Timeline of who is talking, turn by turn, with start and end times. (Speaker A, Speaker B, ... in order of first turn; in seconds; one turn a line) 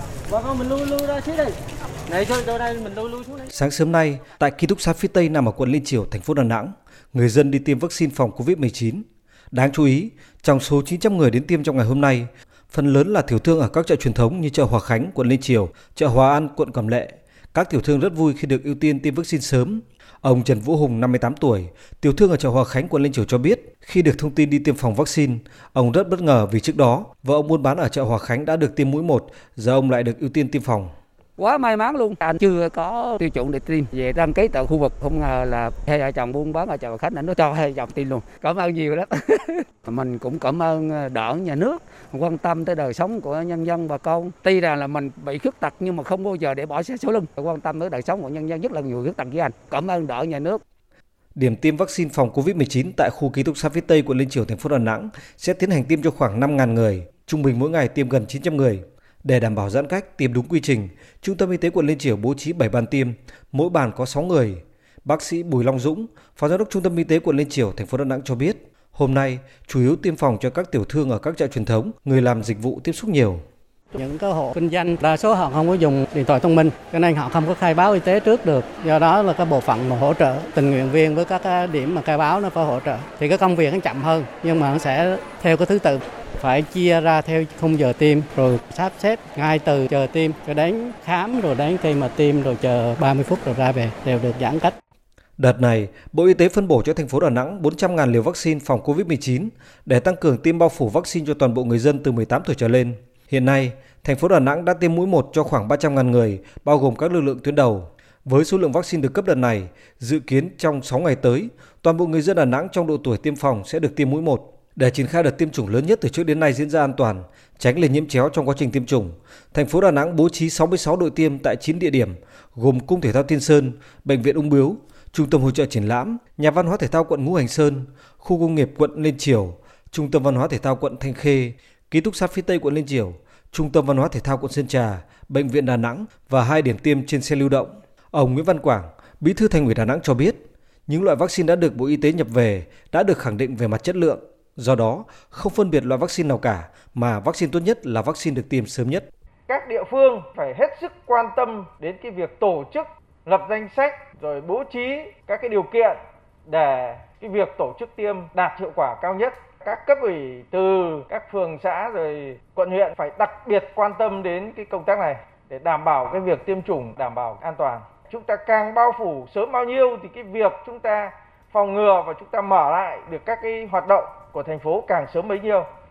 Speaker A: 0.3-1.5
Speaker A: 2.1-3.4
Speaker B: 3.5-30.9
Speaker C: 31.4-50.6
Speaker B: 51.4-73.4
Speaker D: 73.9-94.7
Speaker B: 95.4-149.1
Speaker E: 149.5-175.7